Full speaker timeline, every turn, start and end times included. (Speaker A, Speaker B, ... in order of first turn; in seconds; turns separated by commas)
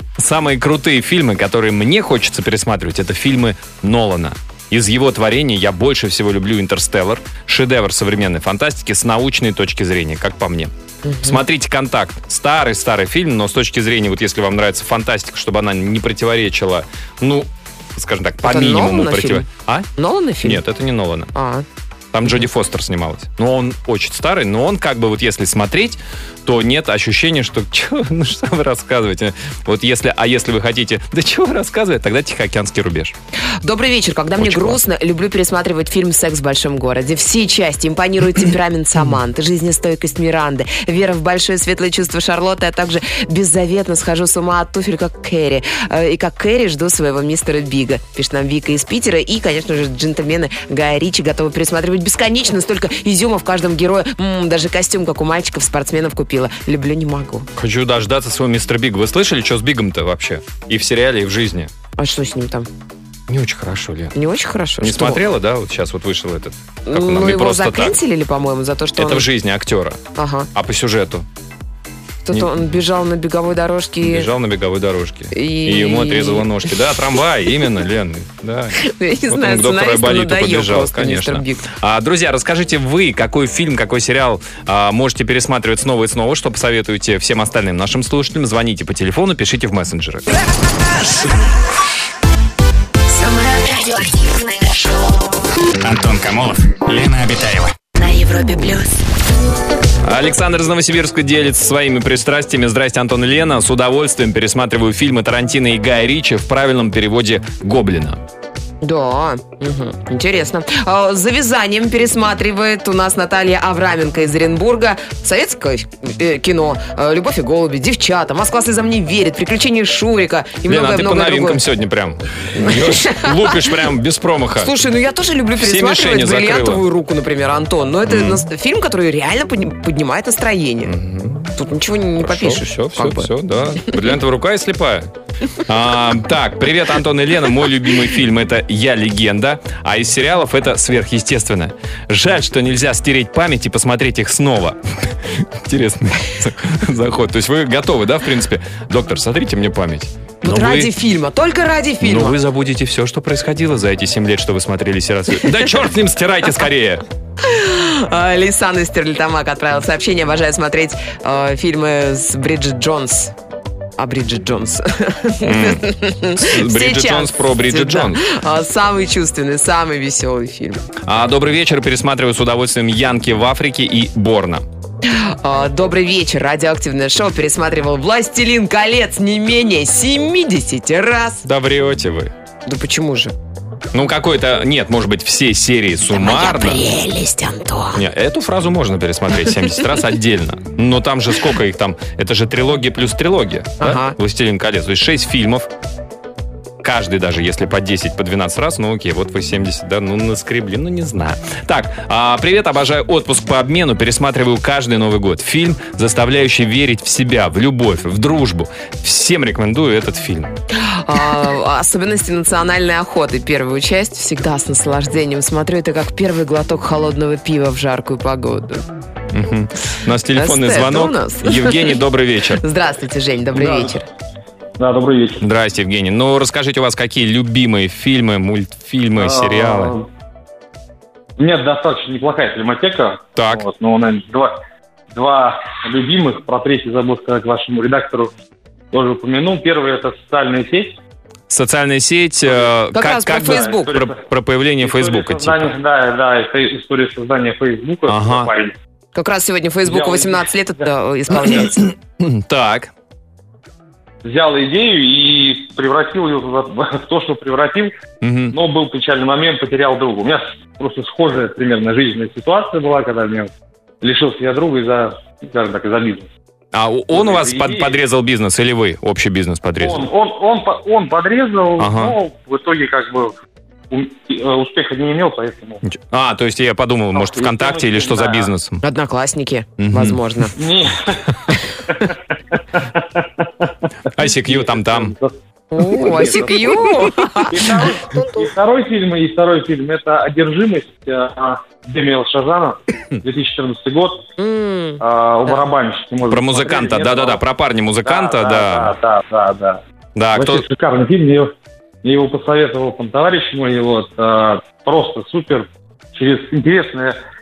Speaker A: 0.2-10.7, Speaker B: 11.1-11.4, Speaker A: 11.2-19.9, Speaker B: 18.4-19.5, Speaker B: 20.0-20.6, Speaker A: 20.4-21.3, Speaker B: 21.3-21.6, Speaker A: 22.1-33.1, Speaker B: 33.6-57.5, Speaker A: 34.4-34.8, Speaker A: 57.6-61.7, Speaker B: 62.0-62.7, Speaker A: 63.3-64.2, Speaker B: 64.1-65.2, Speaker A: 64.8-68.0, Speaker B: 66.9-69.3, Speaker A: 69.0-70.0, Speaker B: 70.2-70.5, Speaker A: 70.5-71.3, Speaker B: 72.2-74.3, Speaker A: 72.3-72.7, Speaker A: 74.0-90.3, Speaker B: 75.3-76.5, Speaker B: 78.8-81.7, Speaker C: 93.1-95.4, Speaker D: 95.8-97.8, Speaker C: 98.0-99.0, Speaker A: 100.0-108.2, Speaker B: 108.8-121.6, Speaker A: 120.7-124.7, Speaker B: 122.5-123.8, Speaker B: 124.6-130.9, Speaker A: 125.6-126.8, Speaker A: 128.1-128.5, Speaker A: 130.8-131.5, Speaker B: 131.6-133.3, Speaker A: 132.2-150.9, Speaker B: 150.4-152.4, Speaker A: 152.0-157.1, Speaker B: 157.4-163.3, Speaker B: 164.0-170.8, Speaker A: 165.4-168.2, Speaker A: 171.1-174.7, Speaker B: 175.1-181.4, Speaker A: 181.4-182.3, Speaker B: 182.7-183.3, Speaker A: 183.9-186.8, Speaker B: 186.1-188.0, Speaker A: 187.9-195.7, Speaker B: 193.8-194.2, Speaker A: 196.8-210.5, Speaker B: 210.7-218.8, Speaker A: 219.3-222.6, Speaker B: 220.3-222.0, Speaker B: 222.6-224.1, Speaker E: 223.6-224.0, Speaker E: 224.8-225.5, Speaker A: 225.4-230.0, Speaker E: 229.2-230.1, Speaker E: 231.4-234.6, Speaker A: 233.4-233.7, Speaker E: 235.1-238.3, Speaker E: 238.9-241.0, Speaker A: 241.5-245.7, Speaker E: 242.5-242.8, Speaker B: 242.9-244.0, Speaker E: 243.4-244.3, Speaker E: 244.8-248.8, Speaker A: 248.1-248.5, Speaker B: 249.2-251.9, Speaker E: 249.8-250.9, Speaker A: 251.4-252.9, Speaker E: 254.2-257.9, Speaker A: 258.2-258.6, Speaker E: 258.5-266.3, Speaker A: 266.7-270.1, Speaker E: 267.1-268.0, Speaker E: 269.8-273.4, Speaker A: 271.8-272.2, Speaker E: 273.9-275.8, Speaker A: 275.9-278.8, Speaker E: 277.1-278.5, Speaker B: 278.8-280.6, Speaker A: 279.8-280.2, Speaker E: 280.6-294.3, Speaker A: 284.1-285.1, Speaker B: 285.7-288.5, Speaker B: 294.4-295.6, Speaker E: 295.0-297.4, Speaker A: 296.3-299.0, Speaker E: 298.0-299.8, Speaker A: 300.2-300.7, Speaker E: 300.3-307.2